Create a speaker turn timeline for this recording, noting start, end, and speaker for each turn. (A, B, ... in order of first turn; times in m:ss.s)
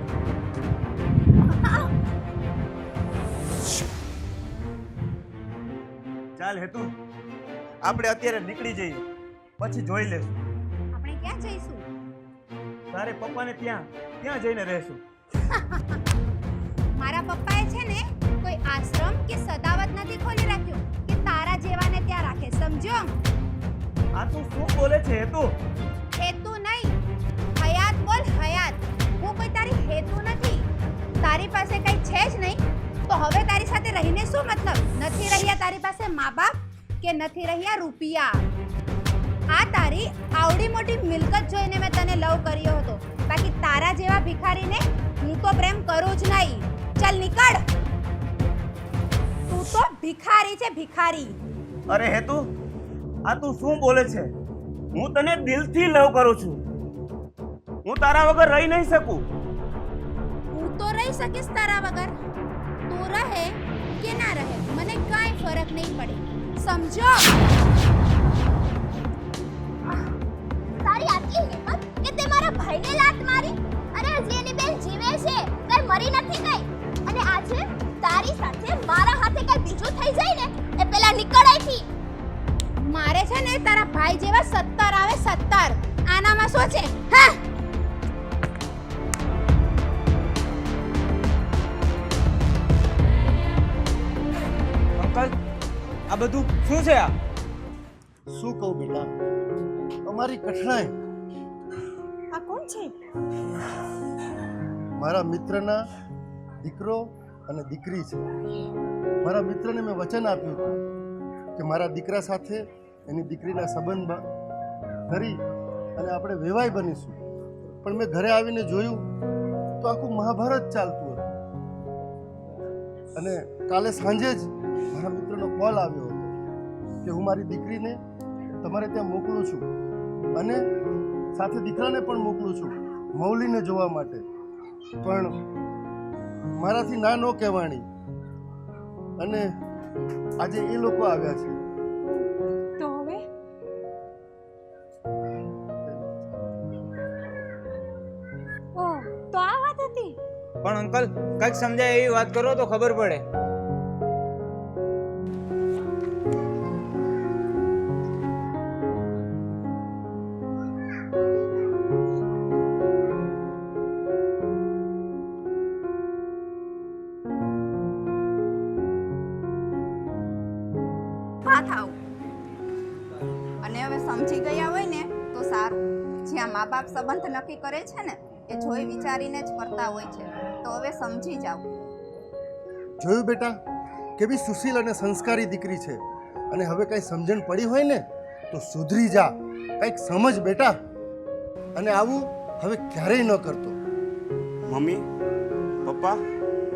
0:01.5-0:01.9 A
0:06.4-0:06.9 B
0:07.8-0:09.0 B
0:09.6-0:10.4 B
0:10.9-0:11.9 A
0:12.9-0:15.0 B
0:15.5-0:16.0 A
0:17.0-0:23.2 A
0:24.1-0:25.6 B
0:26.2-0:26.9 A
0:27.6-0:30.6 A
0:31.2-0:38.4 A
0:39.5-0:47.6 A
0:49.5-0:51.4 A
0:51.9-0:52.5 B
0:53.2-0:54.3 B
0:54.9-0:56.6 B
0:57.8-0:59.2 B
1:00.5-1:02.1 A
1:02.9-1:07.3 A
1:10.8-1:21.8 C
1:22.8-1:27.4 A
1:35.0-1:35.3 D
1:36.1-1:37.1 D
1:38.3-1:39.1 E
1:40.0-1:40.9 E
1:42.3-1:42.9 F
1:45.0-1:45.8 E
1:46.6-1:48.2 E
1:49.2-1:50.8 E
1:51.6-1:54.2 E
1:55.1-1:55.4 E
1:56.0-1:57.2 E
1:57.8-1:59.0 E
1:59.8-2:01.3 E
2:03.2-2:06.3 E
2:07.0-2:08.0 E
2:08.6-2:09.7 E
2:10.3-2:10.6 E
2:11.3-2:14.2 E
2:15.0-2:15.4 E
2:16.6-2:17.8 E
2:19.2-2:19.5 E
2:20.4-2:21.6 E
2:22.0-2:23.2 F
2:25.8-2:26.7 E
2:28.8-2:30.2 F
2:30.6-2:33.2 D
2:51.4-2:52.0 G
2:53.6-3:01.9 G
3:03.0-3:03.6 E
3:04.2-3:06.0 E
3:06.5-3:10.7 E
3:11.8-3:13.8 E
3:14.7-3:15.0 B
3:15.8-3:16.2 B